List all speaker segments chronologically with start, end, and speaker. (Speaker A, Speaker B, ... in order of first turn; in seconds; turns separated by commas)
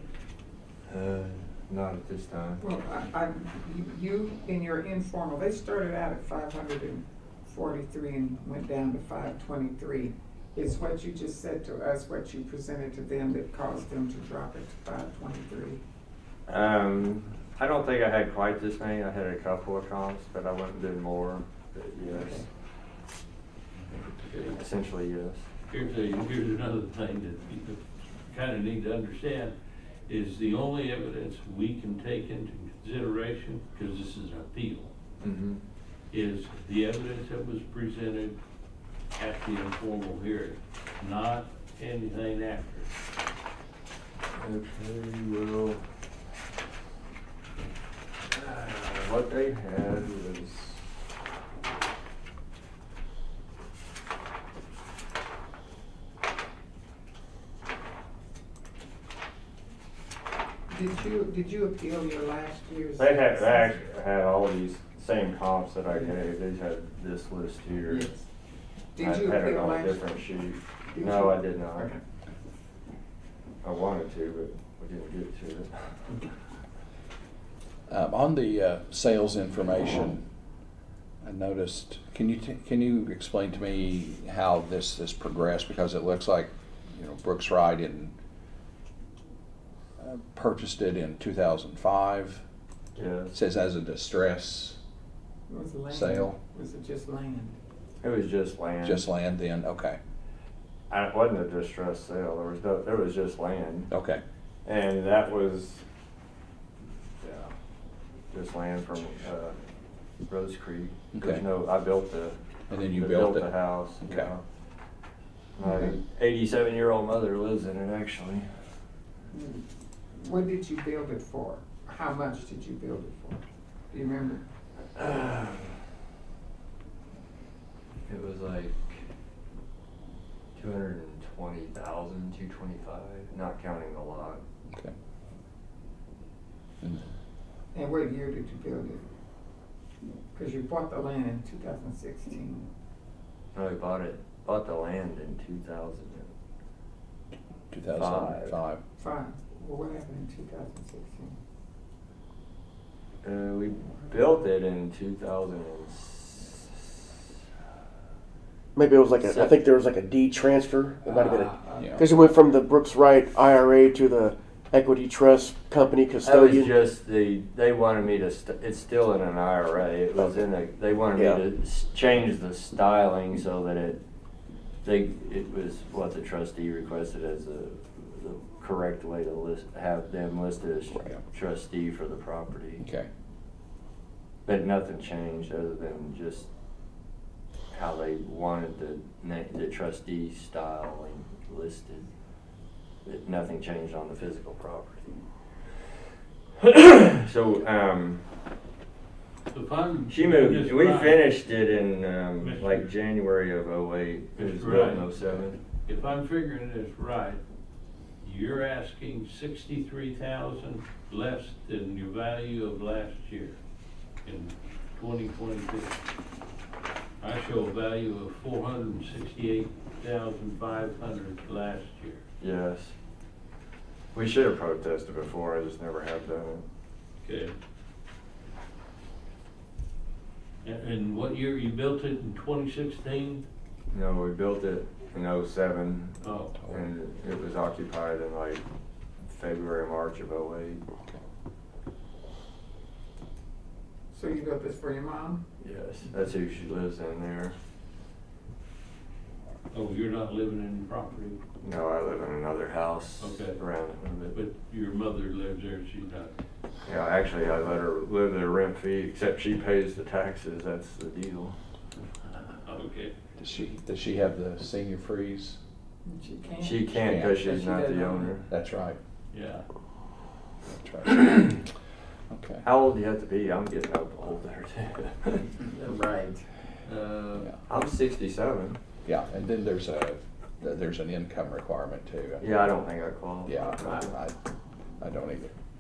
Speaker A: 0.9-2.6, Speaker B: 2.6-15.8, Speaker A: 16.5-22.4, Speaker B: 22.1-22.5, Speaker C: 24.2-24.6, Speaker A: 24.3-25.5, Speaker C: 25.7-29.6, Speaker C: 30.1-34.9, Speaker A: 35.2-35.6, Speaker C: 36.1-38.4, Speaker C: 39.2-42.9, Speaker A: 44.3-45.8, Speaker A: 48.3-50.9, Speaker B: 60.7-63.8, Speaker A: 63.0-68.1, Speaker B: 67.9-68.2, Speaker B: 69.0-70.2, Speaker A: 69.0-71.9, Speaker B: 70.9-72.0, Speaker A: 73.6-76.2, Speaker D: 77.9-80.2, Speaker D: 81.2-88.1, Speaker D: 90.0-92.4, Speaker A: 93.0-93.3, Speaker D: 93.3-94.8, Speaker B: 95.5-97.6, Speaker D: 95.9-96.4, Speaker A: 98.0-99.1, Speaker D: 98.8-100.0, Speaker A: 100.9-103.9, Speaker D: 103.9-104.2, Speaker A: 104.6-105.8, Speaker A: 107.2-107.5, Speaker A: 108.3-109.5, Speaker A: 110.3-114.4, Speaker D: 111.1-111.5, Speaker D: 112.7-114.3, Speaker A: 115.6-118.5, Speaker B: 115.6-116.0, Speaker B: 119.3-124.5, Speaker A: 125.0-125.7, Speaker A: 128.1-129.0, Speaker A: 130.6-134.4, Speaker D: 134.7-134.9, Speaker B: 137.7-139.1, Speaker B: 140.3-142.7, Speaker A: 143.5-146.3, Speaker D: 147.7-148.8, Speaker A: 147.9-148.6, Speaker B: 149.0-151.4, Speaker A: 153.2-156.9, Speaker E: 158.8-166.8, Speaker A: 159.2-159.6, Speaker B: 161.1-162.1, Speaker A: 166.2-174.0, Speaker E: 171.1-171.4, Speaker A: 174.8-182.8, Speaker D: 180.9-181.2, Speaker D: 182.8-183.1, Speaker A: 184.4-186.5, Speaker A: 187.7-192.1, Speaker A: 193.1-195.2, Speaker A: 196.6-198.2, Speaker C: 199.5-201.3, Speaker A: 200.1-205.6, Speaker C: 202.4-202.9, Speaker C: 204.4-205.2, Speaker C: 205.8-207.4, Speaker C: 208.2-213.6, Speaker C: 214.2-216.0, Speaker C: 217.2-222.2, Speaker A: 222.4-222.9, Speaker A: 224.1-226.6, Speaker C: 227.2-227.5, Speaker C: 230.6-233.4, Speaker A: 233.9-238.6, Speaker C: 236.2-236.6, Speaker A: 239.2-240.8, Speaker B: 244.1-245.4, Speaker A: 245.6-247.5, Speaker C: 249.7-251.4, Speaker A: 251.6-254.4, Speaker C: 253.2-253.6, Speaker C: 254.3-256.3, Speaker A: 256.9-261.5, Speaker C: 262.6-263.1, Speaker D: 263.4-265.6, Speaker B: 266.1-268.4, Speaker A: 266.6-268.5, Speaker D: 266.9-267.4, Speaker D: 268.5-269.0, Speaker C: 269.3-269.7, Speaker D: 270.6-271.7, Speaker D: 272.3-272.6, Speaker A: 272.6-275.6, Speaker B: 275.7-276.4, Speaker C: 276.9-277.5, Speaker A: 277.7-278.8, Speaker D: 279.0-282.6, Speaker A: 282.4-284.1, Speaker D: 283.4-284.3, Speaker D: 285.0-285.5